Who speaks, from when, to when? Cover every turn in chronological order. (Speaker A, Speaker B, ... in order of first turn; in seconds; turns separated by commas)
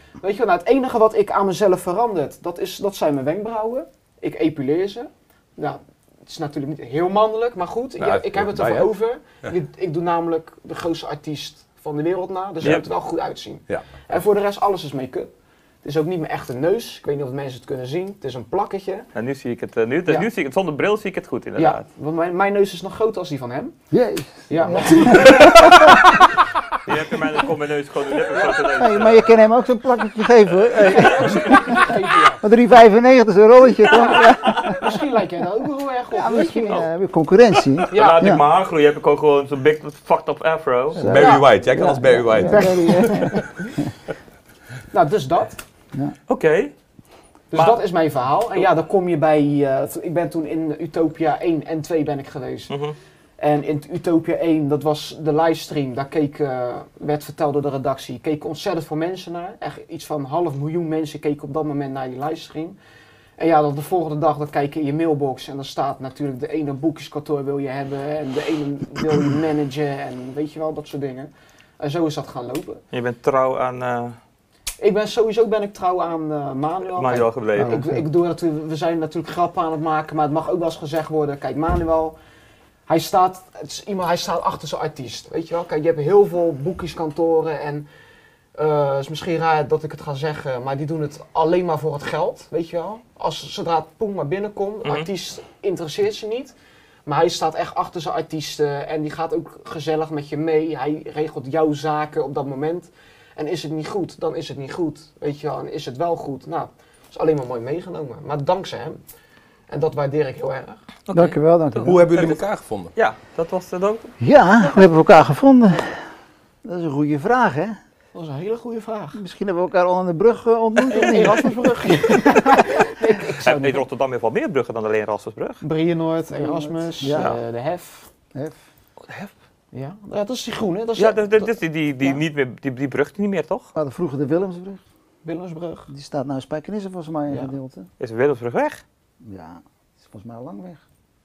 Speaker A: 0.2-15.3, Speaker B: 8.0-9.5, Speaker B: 13.7-14.0, Speaker A: 15.8-19.1, Speaker C: 19.1-21.8, Speaker A: 21.6-23.8, Speaker D: 23.9-26.1, Speaker A: 24.5-26.1, Speaker C: 25.2-25.8, Speaker C: 26.9-29.3, Speaker D: 28.7-35.0, Speaker A: 30.8-32.4, Speaker A: 33.9-36.8, Speaker D: 36.1-38.5, Speaker C: 37.8-41.1, Speaker A: 37.9-38.3, Speaker D: 41.0-43.5, Speaker B: 41.0-43.0, Speaker A: 41.1-41.5, Speaker A: 42.4-43.5, Speaker A: 44.9-45.6, Speaker C: 46.3-46.7, Speaker A: 47.5-52.7, Speaker C: 47.5-47.8, Speaker C: 52.7-53.0, Speaker A: 53.4-62.8, Speaker A: 63.4-72.8, Speaker C: 72.9-74.2, Speaker A: 74.8-82.2, Speaker C: 76.9-77.8, Speaker D: 77.6-78.0, Speaker A: 82.9-87.9, Speaker A: 88.5-96.5, Speaker A: 97.1-109.0, Speaker A: 109.7-110.8, Speaker C: 111.1-112.4, Speaker D: 111.1-112.1, Speaker B: 111.8-112.9, Speaker C: 113.0-114.1, Speaker D: 114.2-116.0, Speaker D: 116.6-117.8, Speaker A: 118.1-119.2, Speaker D: 119.1-122.8, Speaker A: 120.9-123.8, Speaker C: 123.4-125.6, Speaker A: 125.6-128.1, Speaker D: 126.3-127.4, Speaker C: 127.1-127.4, Speaker D: 128.3-128.6, Speaker A: 129.7-132.2, Speaker C: 131.0-133.7, Speaker D: 133.8-134.8, Speaker A: 135.2-135.9, Speaker D: 135.9-137.9, Speaker C: 138.0-138.8, Speaker D: 139.2-140.8